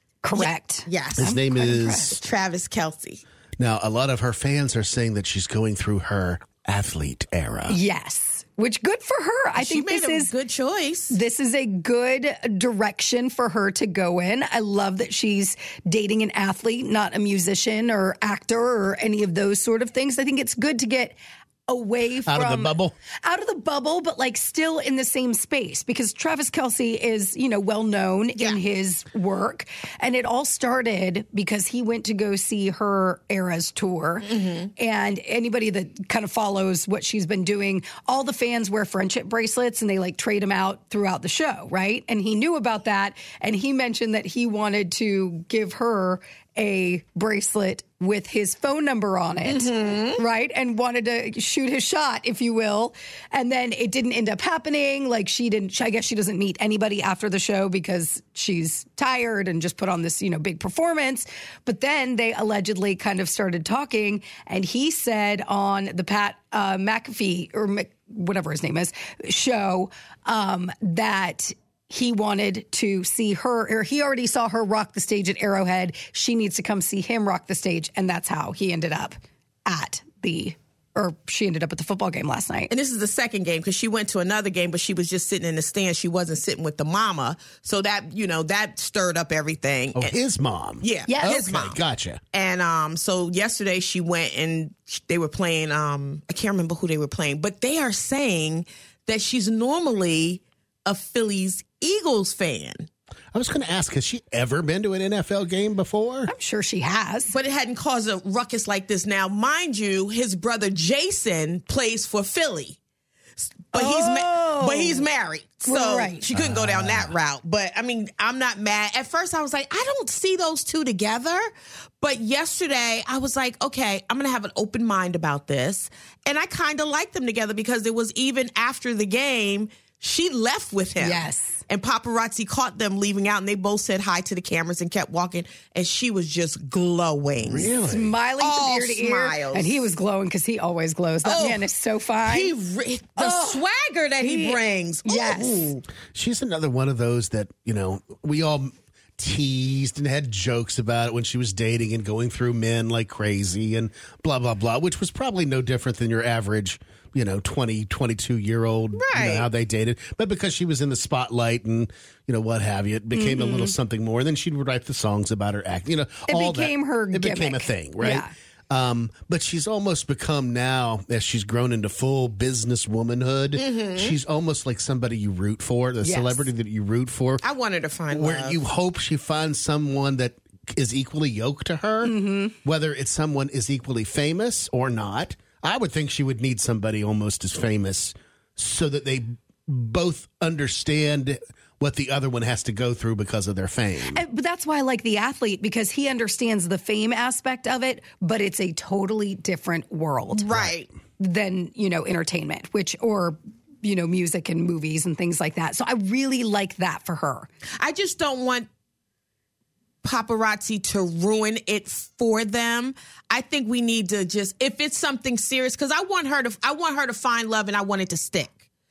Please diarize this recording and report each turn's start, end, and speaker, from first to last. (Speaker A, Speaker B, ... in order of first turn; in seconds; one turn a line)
Speaker A: 0.2-2.2
Speaker B: 0.3-1.4
Speaker C: 1.2-2.2
Speaker B: 2.1-3.2
Speaker C: 3.6-7.8
Speaker A: 7.7-10.3
Speaker B: 9.6-11.2
Speaker A: 11.1-82.7
Speaker C: 22.2-22.9
Speaker B: 28.4-28.6
Speaker B: 34.2-34.7
Speaker B: 49.5-50.2
Speaker B: 82.7-90.2
Speaker C: 90.0-92.2
Speaker B: 90.8-91.8
Speaker A: 91.1-91.5
Speaker B: 92.3-102.9
Speaker C: 103.3-106.3
Speaker A: 106.3-107.3
Speaker B: 107.3-112.8
Speaker B: 113.4-121.5
Speaker A: 113.7-115.1
Speaker A: 115.7-116.2
Speaker C: 116.3-117.2
Speaker B: 122.0-137.8
Speaker A: 131.0-131.6
Speaker C: 137.4-138.1
Speaker A: 137.8-142.5
Speaker B: 138.4-139.9
Speaker B: 141.2-141.7
Speaker B: 142.2-145.8
Speaker A: 143.2-143.6
Speaker A: 144.2-145.7
Speaker C: 146.1-177.4
Speaker B: 159.0-159.5
Speaker A: 163.1-163.8
Speaker A: 166.3-168.3
Speaker B: 173.6-174.2
Speaker A: 176.0-176.5
Speaker B: 177.4-178.6
Speaker C: 178.1-194.2
Speaker A: 182.0-182.5
Speaker A: 194.1-200.5
Speaker B: 200.3-200.9
Speaker C: 200.5-200.8
Speaker A: 201.2-207.5
Speaker B: 207.8-208.7
Speaker B: 210.0-218.6